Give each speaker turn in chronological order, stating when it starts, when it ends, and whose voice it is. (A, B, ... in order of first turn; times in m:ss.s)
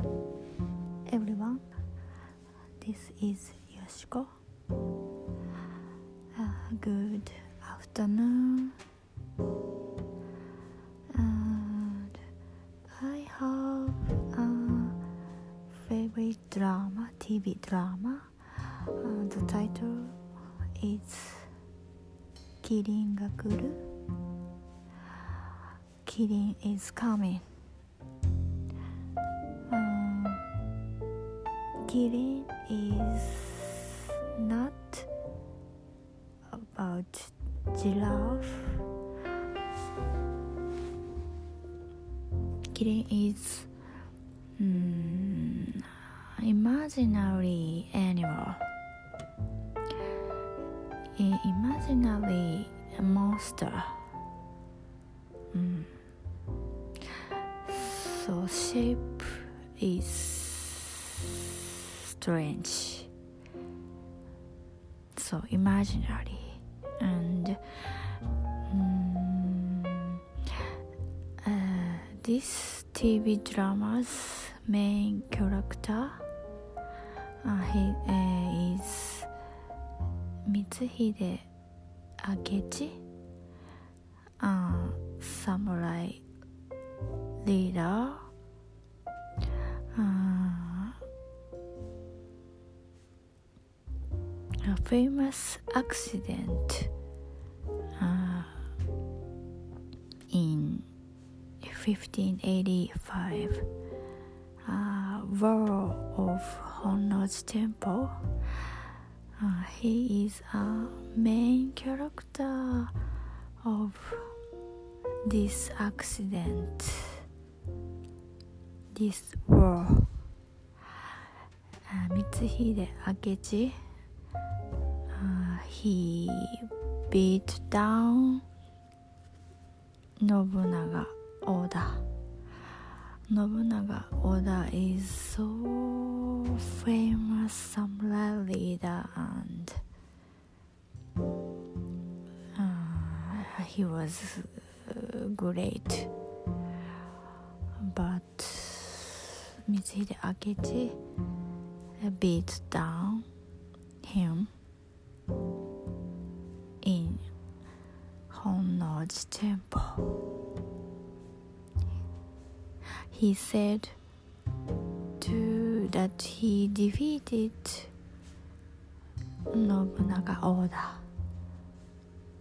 0:01.1-0:01.7 A
0:02.8-0:04.4 A
0:06.3-0:08.8 A
0:11.1-0:12.2 A
0:12.9-0:15.0 A
0:15.7-0:20.2 A
0:20.7-0:21.5 A
0:22.6-0:23.8 A
0:26.0-0:27.5 A
0:29.7-0:30.5 A
0:31.8-0:35.1 A
0:36.5-0:38.9 A
0:42.7-0:43.7 A
0:44.6-0:48.7 A
0:51.2-0:54.1 A
0:55.5-0:55.9 A
0:57.6-1:03.1 A
1:05.2-1:10.6 A
1:11.4-1:16.3 A
1:17.4-1:19.3 A
1:20.4-1:21.5 A
1:22.2-1:23.0 A
1:24.4-1:26.2 A
1:27.4-1:28.3 A
1:29.9-1:31.0 A
1:34.6-1:36.9 A
1:38.0-1:38.7 A
1:40.3-1:40.9 A
1:41.6-1:43.7 A
1:44.6-1:48.8 A
1:49.4-1:53.0 A
1:53.6-1:54.4 A
1:55.2-1:57.3 A
1:58.9-2:00.2 A
2:01.9-2:03.8 A
2:05.1-2:08.4 A
2:10.2-2:12.1 A
2:13.3-2:19.8 A
2:22.6-2:26.1 A
2:27.8-2:31.0 A
2:32.0-2:33.3 A
2:34.0-2:34.5 A
2:36.8-2:37.2 A
2:38.3-2:40.2 A
2:43.1-2:44.0 A
2:45.2-2:47.9 A
2:49.5-2:51.1 A